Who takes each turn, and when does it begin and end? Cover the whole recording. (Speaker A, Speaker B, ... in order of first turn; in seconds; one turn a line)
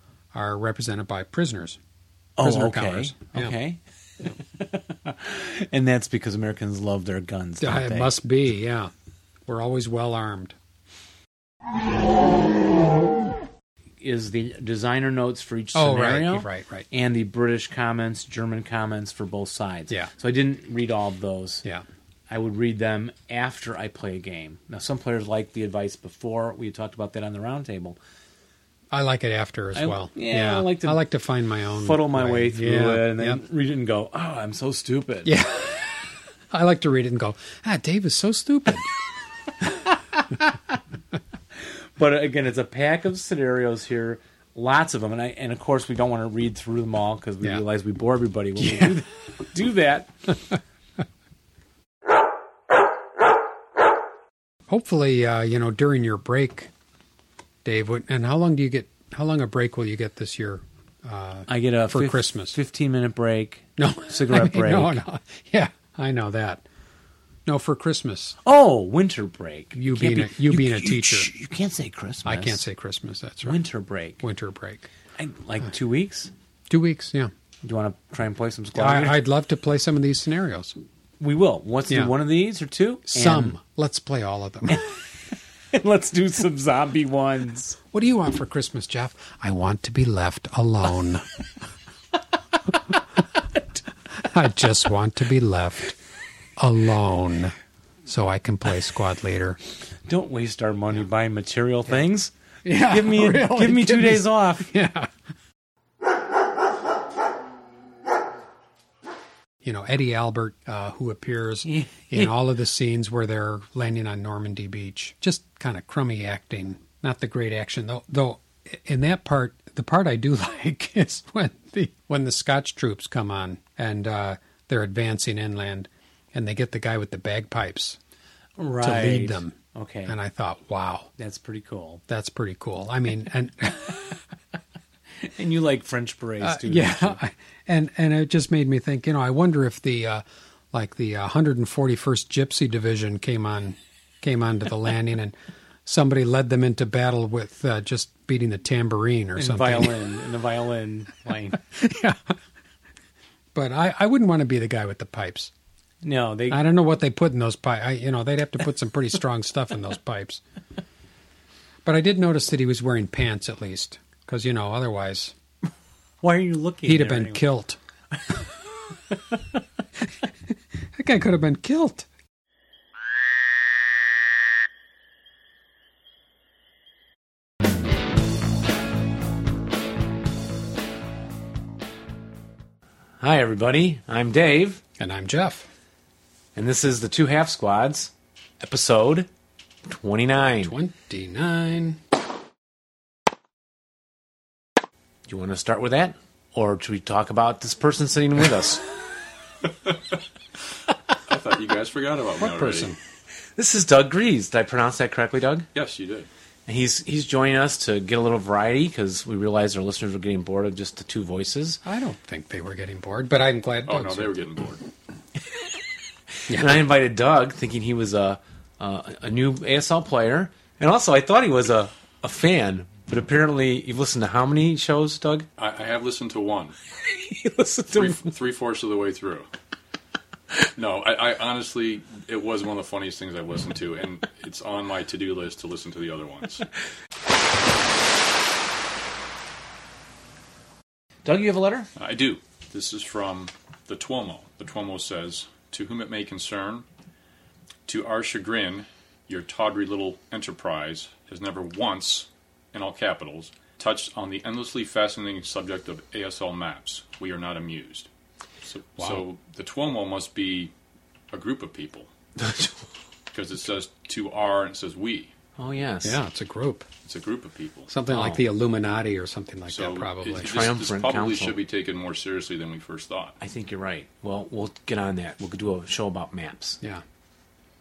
Speaker A: 0.3-1.8
Speaker B: 2.4-3.8
Speaker A: 2.4-3.5
Speaker B: 4.6-8.1
Speaker A: 7.6-8.9
Speaker A: 9.5-10.6
Speaker B: 14.0-21.6
Speaker A: 15.7-16.9
Speaker B: 22.3-28.0
Speaker A: 28.9-33.4
Speaker B: 29.8-31.0
Speaker B: 31.8-35.3
Speaker A: 35.2-38.9
Speaker B: 42.0-50.1
Speaker A: 48.6-49.0
Speaker A: 54.7-56.7
Speaker A: 57.6-62.6
Speaker B: 61.5-65.0
Speaker A: 63.8-66.6
Speaker A: 67.5-68.4
Speaker B: 68.4-72.6
Speaker A: 69.8-71.3
Speaker A: 72.2-73.6
Speaker B: 73.4-74.2
Speaker A: 74.2-74.9
Speaker B: 75.2-76.3
Speaker A: 76.7-77.3
Speaker B: 77.6-79.2
Speaker A: 78.8-80.8
Speaker B: 81.2-83.6
Speaker A: 81.9-82.2
Speaker A: 83.1-84.8
Speaker B: 85.7-87.8
Speaker A: 87.9-91.3
Speaker A: 94.2-96.0
Speaker A: 96.6-97.5
Speaker A: 98.1-99.6
Speaker B: 100.1-104.7
Speaker A: 102.6-105.1
Speaker A: 109.6-128.0
Speaker B: 111.7-112.3
Speaker B: 128.6-130.2
Speaker A: 128.8-131.1
Speaker B: 131.2-132.0
Speaker A: 132.1-134.2
Speaker B: 135.2-137.2
Speaker A: 136.4-150.0
Speaker B: 149.4-151.6
Speaker A: 151.7-152.3
Speaker A: 153.5-155.5
Speaker B: 156.0-156.6
Speaker A: 156.5-160.4
Speaker A: 161.8-165.3
Speaker B: 166.2-167.4
Speaker A: 166.9-167.8
Speaker A: 171.0-172.1
Speaker B: 183.2-184.8
Speaker A: 185.0-185.7
Speaker B: 186.6-189.3
Speaker B: 189.9-190.7
Speaker A: 190.3-192.0
Speaker B: 195.3-198.8
Speaker C: 201.3-202.9
Speaker A: 202.4-203.0
Speaker B: 203.6-205.7
Speaker C: 205.7-206.3
Speaker B: 206.7-211.8
Speaker A: 211.8-214.3
Speaker C: 213.9-214.8
Speaker A: 216.5-216.8
Speaker B: 216.5-225.5
Speaker C: 225.6-226.8
Speaker B: 227.2-228.3
Speaker C: 227.9-229.5
Speaker C: 230.8-236.7
Speaker B: 241.2-241.9
Speaker C: 242.0-246.8
Speaker C: 247.9-258.1
Speaker C: 258.6-260.7
Speaker A: 259.0-259.2
Speaker C: 261.3-262.1
Speaker B: 262.4-262.7
Speaker C: 263.3-265.3
Speaker B: 265.6-266.2
Speaker A: 266.0-266.9
Speaker C: 267.1-267.9
Speaker A: 267.9-270.5
Speaker B: 268.1-268.4
Speaker C: 269.7-273.4
Speaker B: 270.4-271.6
Speaker B: 273.4-276.8